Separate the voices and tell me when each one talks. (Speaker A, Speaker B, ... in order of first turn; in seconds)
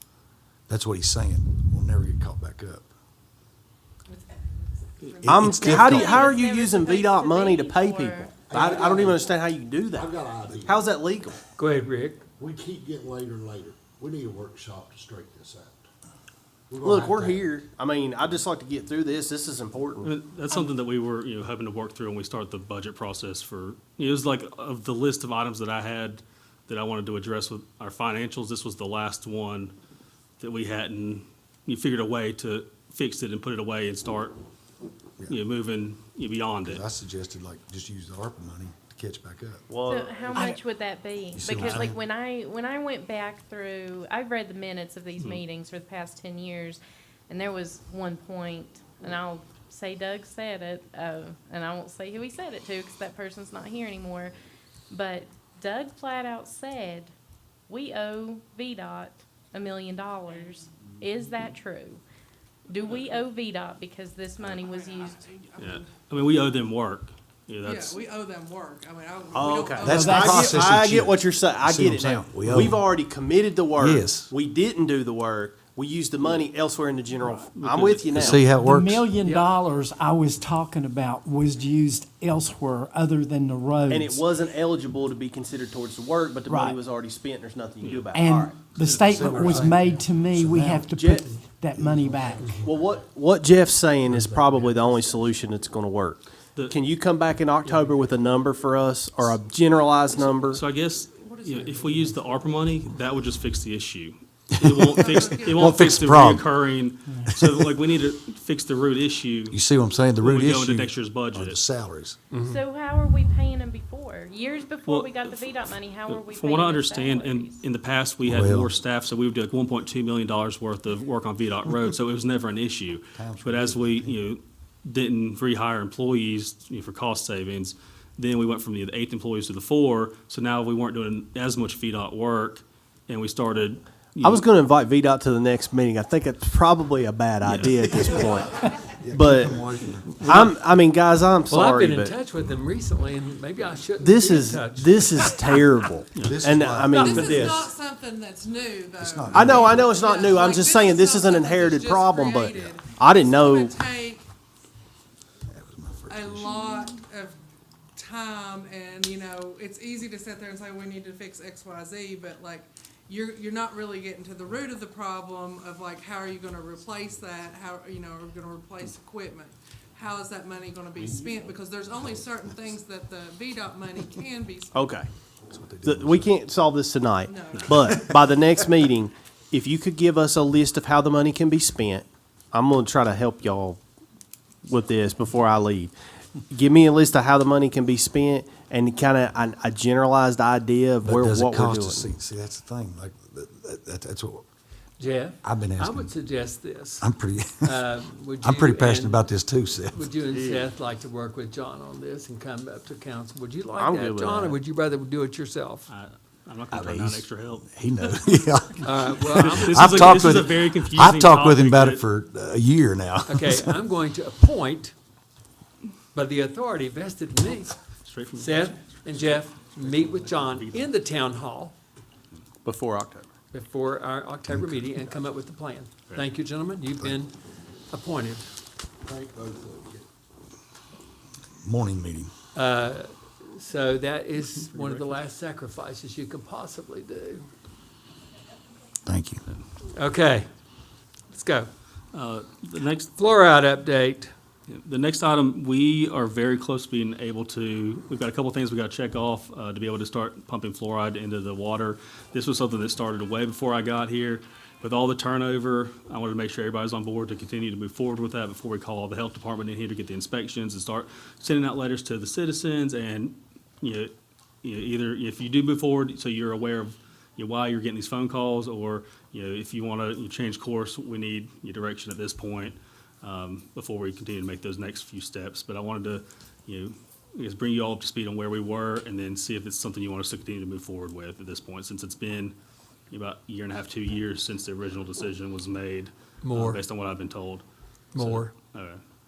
Speaker A: 0.7-2.9, 5.2-6.3, 8.8-9.1, 12.4-15.7, 16.8-17.2, 36.6-39.6, 41.4-41.9, 69.8-72.8, 73.8-74.3, 78.1-79.1, 89.2-90.9, 91.8-92.5, 104.6-105.0, 105.6-106.5, 107.3-107.7, 109.5-112.2, 118.2-118.7, 123.2-124.2, 138.0-140.5, 146.2-147.7, 149.0-149.9, 155.5-156.6, 175.5-176.3, 191.0-194.4, 195.4-196.1, 197.0-197.8, 198.4-200.0, 206.7-213.7, 224.5-224.8, 231.6-232.3, 239.1-239.4
Speaker B: 4.1-5.5, 64.5-65.9, 67.6-70.8, 100.0-102.8, 104.9-106.3, 146.9-154.2, 156.1-157.4, 158.0-174.9, 177.3-178.1
Speaker C: 5.2-11.4, 16.8-20.1, 39.7-40.6, 69.3-78.5, 83.9-89.7, 90.9-91.3, 92.6-100.6, 134.2-139.6, 140.2-142.2, 144.0-147.7, 149.3-153.8, 174.7-175.1, 175.8-183.8, 184.7-185.9, 186.5-192.1, 200.3-200.7, 203.8-204.6, 222.7-223.3
Speaker D: 5.5-8.4, 39.9-54.3, 54.9-57.1, 57.7-62.0, 62.7-65.2, 112.4-117.6
Speaker E: 8.5-9.2, 10.0-10.7, 12.4-14.0, 16.7-17.4, 92.3-93.0, 229.1-230.0
Speaker F: 11.6-12.2, 141.5-145.6, 195.0-197.1, 197.6-199.3, 199.9-205.9, 208.8-210.4, 213.3-214.9, 216.1-217.8, 218.4-221.8, 223.5-227.3, 227.9-228.5, 232.6-237.4, 239.9-240.5, 241.3-241.7, 243.2-244.3, 286.4-286.8, 288.1-288.5
Speaker G: 20.0-29.7, 30.4-34.4, 35.3-36.8, 65.6-68.0, 77.2-78.5, 87.8-88.1, 88.7-89.3, 97.7-97.9, 100.5-109.6, 110.2-111.7, 114.8-115.6, 116.1-134.4, 137.4-137.9, 140.1-140.5, 146.2-146.4, 177.5-177.9, 205.9-207.7, 209.3-212.0, 218.1-219.2, 220.5-220.8, 234.7-235.0, 242.1-243.2, 244.7-264.1, 264.6-282.6, 283.1-287.6, 288.1-289.0
Speaker H: 70.0-70.3, 78.6-84.2, 86.5-86.8, 88.1-92.5